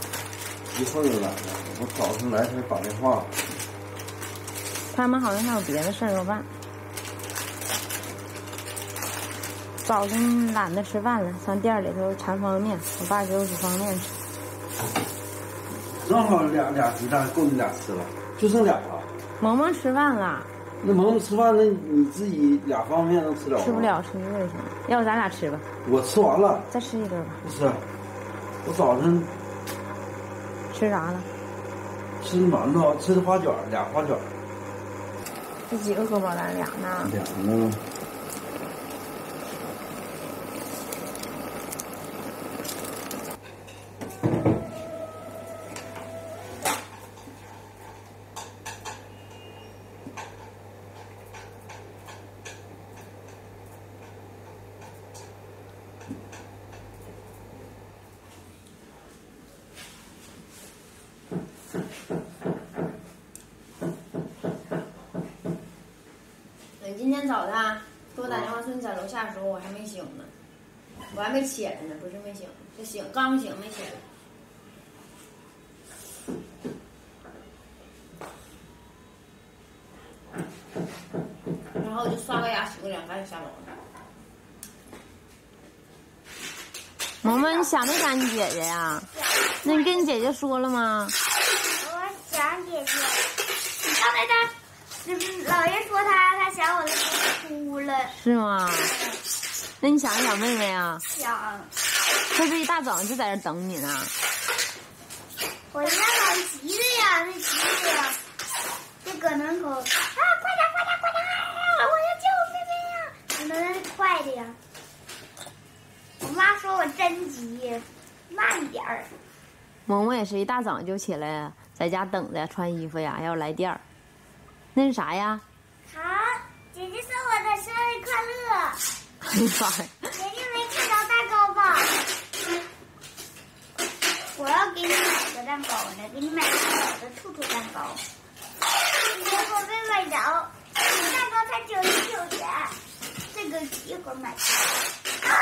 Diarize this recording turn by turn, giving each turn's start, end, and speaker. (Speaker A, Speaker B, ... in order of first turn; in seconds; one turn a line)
Speaker A: 0.7-3.3
Speaker B: 4.9-6.5
Speaker B: 9.8-14.1
Speaker A: 15.9-19.1
Speaker B: 19.4-20.5
Speaker A: 20.8-23.9
Speaker B: 23.6-25.6
Speaker A: 25.8-26.7
Speaker B: 26.7-27.4
Speaker A: 27.4-27.8
Speaker A: 28.6-29.3
Speaker B: 30.7-31.3
Speaker A: 32.2-34.3
Speaker B: 35.7-37.1
Speaker A: 37.0-37.8
Speaker B: 66.8-70.3
Speaker B: 71.1-74.0
Speaker B: 81.7-83.7
Speaker C: 87.2-87.7
Speaker B: 87.2-89.1
Speaker C: 89.1-90.1
Speaker B: 89.6-91.1
Speaker C: 91.7-98.1
Speaker B: 98.1-99.0
Speaker B: 99.8-101.0
Speaker C: 101.1-101.7
Speaker B: 102.3-104.1
Speaker C: 105.7-108.2
Speaker C: 109.0-114.6
Speaker C: 116.2-119.1
Speaker B: 119.8-123.8
Speaker B: 124.7-125.4
Speaker C: 125.8-128.8
Speaker B: 129.2-130.1
Speaker C: 130.2-131.9
Speaker C: 134.3-138.0
Speaker C: 139.0-142.8
Speaker C: 143.3-144.8